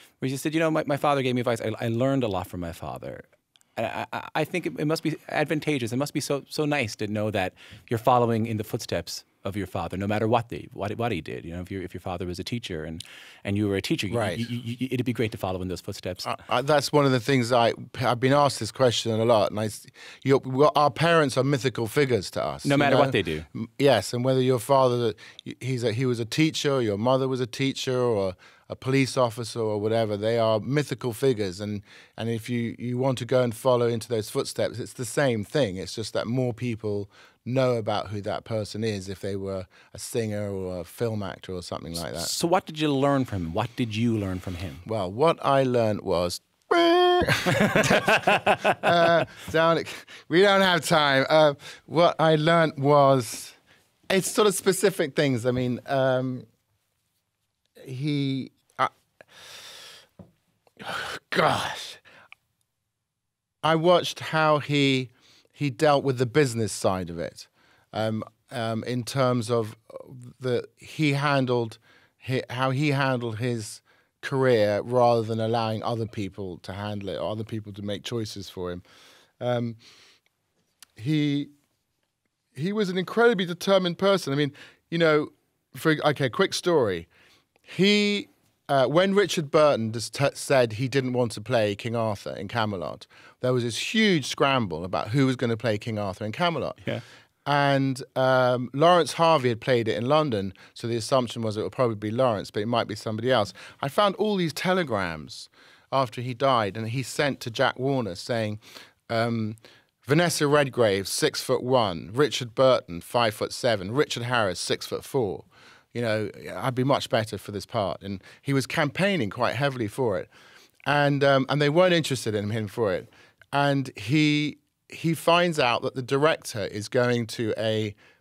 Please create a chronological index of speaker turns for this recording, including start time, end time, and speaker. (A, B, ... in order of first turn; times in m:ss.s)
0:00.2-0:16.3 A
0:14.1-0:14.4 B
0:16.2-0:42.3 B
0:22.6-0:23.4 A
0:42.0-0:44.8 A
0:44.8-0:53.6 B
0:47.5-0:48.8 A
0:54.1-0:56.4 B
0:57.8-0:58.9 B
1:00.8-1:02.0 B
1:03.6-1:18.8 B
1:19.4-1:19.8 B
1:21.0-1:21.5 B
1:22.5-1:27.1 B
1:27.7-1:36.8 B
1:37.4-2:00.3 B
2:00.9-2:07.9 B